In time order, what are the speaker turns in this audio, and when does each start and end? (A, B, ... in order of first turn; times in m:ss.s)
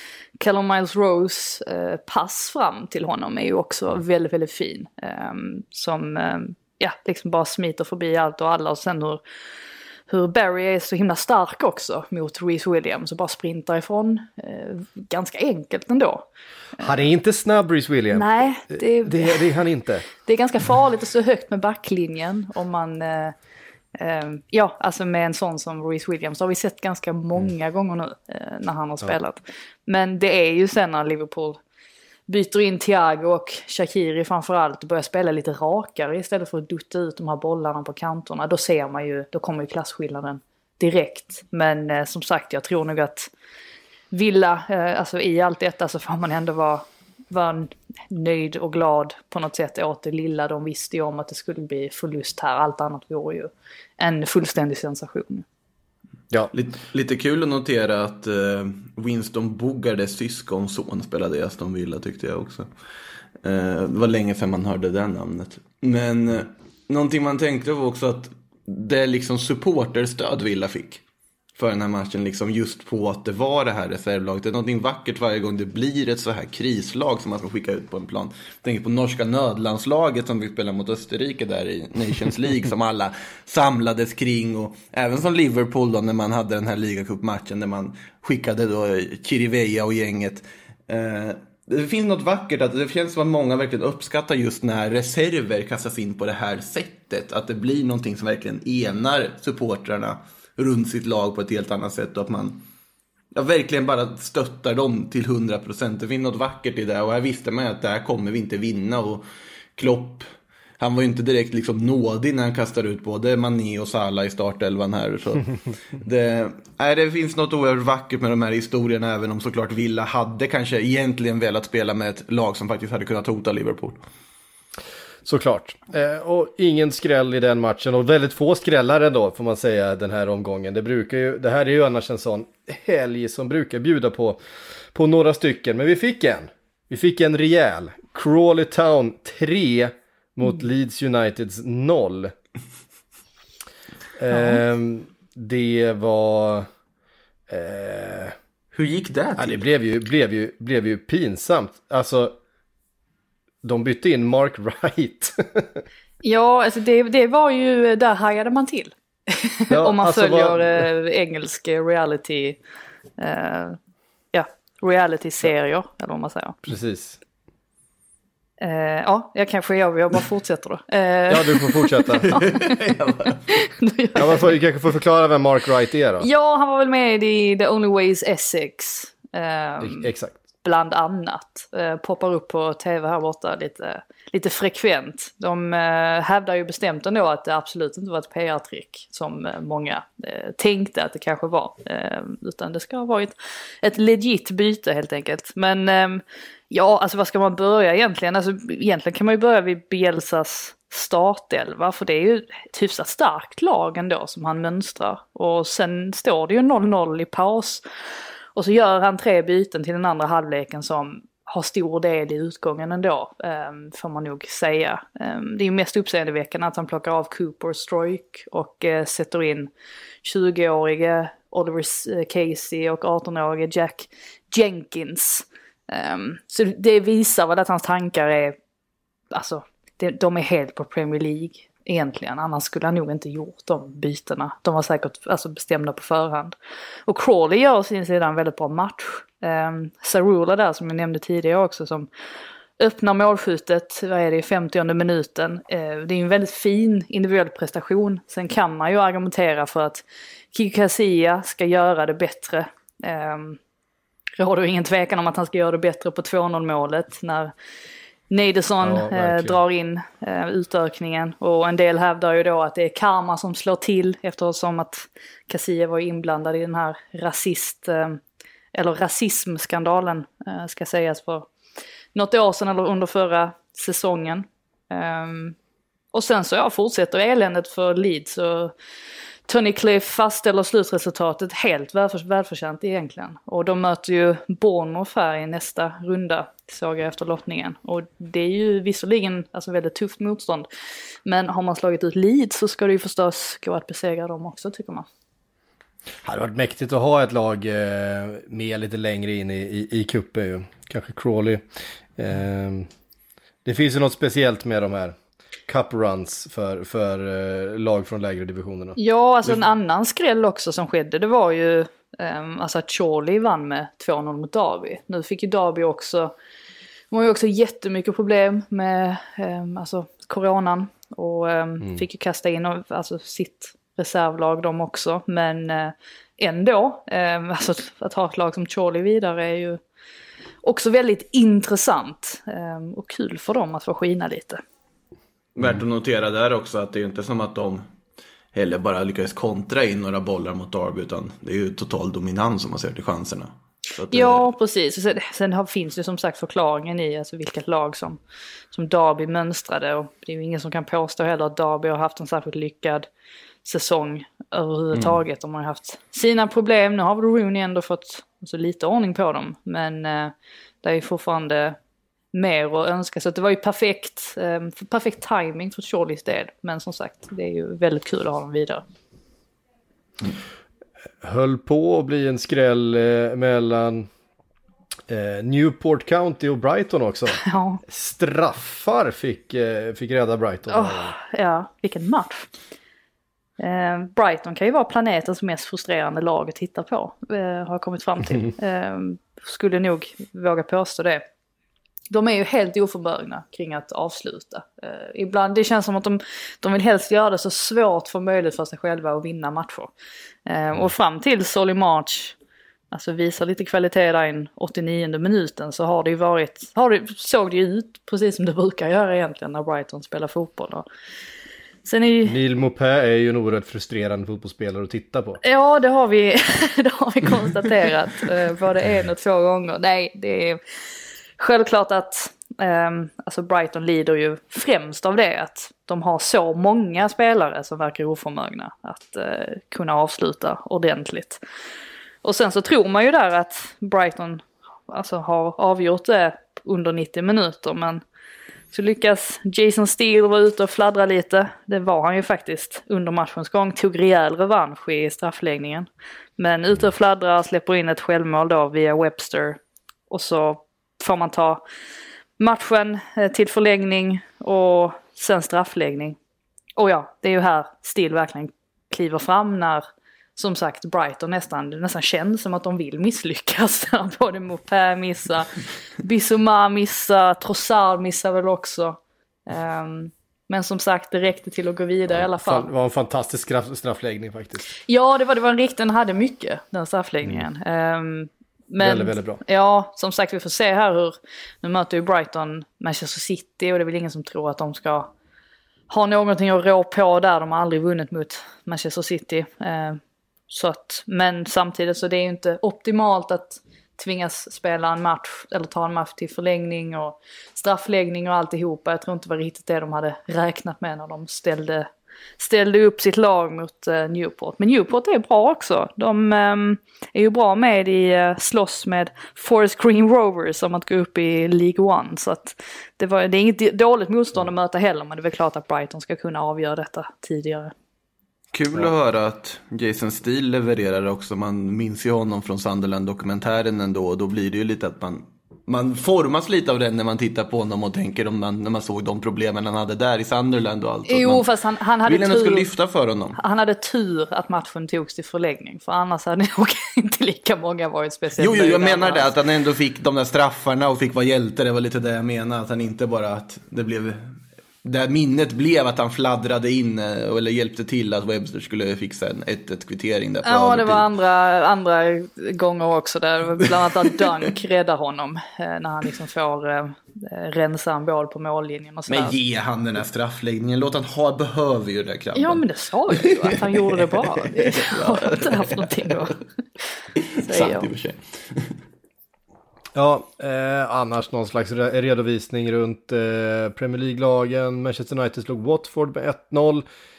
0:00.4-0:09.2 A
0:10.1-0:16.3 A
0:16.8-0:20.1 B
0:18.1-0:19.5 A
0:20.2-0:23.4 A
0:24.0-0:31.6 A
0:32.3-0:43.3 A
0:44.1-0:55.4 A
0:56.5-1:02.7 C
1:03.4-1:11.0 C
1:11.6-1:42.6 C
1:43.3-1:49.2 C
1:49.8-1:50.3 C
1:50.8-2:04.0 C
2:05.2-2:14.4 B
2:14.9-2:22.3 B
2:24.2-2:26.7 B
2:24.3-2:24.6 A
2:27.5-2:28.4 B
2:28.7-2:29.6 C
2:29.4-2:32.3 B
2:33.6-2:35.8 B
2:36.2-2:42.6 A
2:39.7-2:40.9 B
2:43.2-2:43.8 A
2:44.3-2:46.6 A
2:46.6-2:47.2 B
2:48.6-2:52.8 A
2:51.3-2:52.3 B
2:52.3-2:53.4 C
2:53.5-2:54.5 A
2:54.2-2:56.3 B
2:56.2-3:00.1 A
2:59.8-3:00.4 B
3:00.6-3:27.8 A
3:28.6-3:39.7 A
3:40.2-3:48.6 A
3:49.3-3:56.6 A
3:57.1-4:02.1 A
4:02.8-4:13.6 A
4:14.4-4:17.5 A
4:18.3-4:28.2 A
4:18.8-4:19.6 B
4:28.7-4:31.5 A
4:32.2-4:35.6 A
4:36.1-4:38.7 A
4:39.5-4:50.7 A
4:51.3-4:55.1 A
4:56.2-5:01.6 B
5:02.2-5:02.9 B
5:03.6-5:05.2 B
5:05.7-5:09.0 B
5:09.0-5:16.3 A
5:17.1-5:29.8 A
5:30.6-5:34.6 A
5:35.6-5:37.8 C
5:38.5-5:44.4 C
5:44.1-5:48.2 A
5:48.7-5:53.1 A
5:53.6-6:01.8 A
6:02.3-6:08.8 A
6:11.2-6:14.1 B
6:15.1-6:21.2 B
6:17.4-6:17.8 A
6:20.7-6:22.5 A
6:23.6-6:31.2 A
6:32.1-6:39.9 A
6:40.5-6:42.4 A
6:42.9-6:50.8 A
6:51.8-6:52.4 A
6:52.3-6:55.4 B
6:55.4-7:00.6 A
7:01.4-7:11.4 A
7:12.2-7:18.0 A
7:18.7-7:31.6 A
7:32.4-7:36.2 A
7:36.8-7:39.8 A
7:40.4-7:52.7 A
7:52.2-7:54.7 B
7:54.9-8:05.1 A
7:58.8-7:59.4 B
8:05.9-8:37.7 A
8:38.5-8:51.5 C
8:51.1-8:52.7 A
8:52.1-8:53.4 C
8:53.4-8:59.3 A
8:58.4-9:11.1 C
9:10.4-9:19.4 A
9:19.1-9:26.2 C
9:22.4-9:26.4 A
9:27.2-9:28.8 C
9:27.4-9:27.9 A
9:30.0-9:36.8 B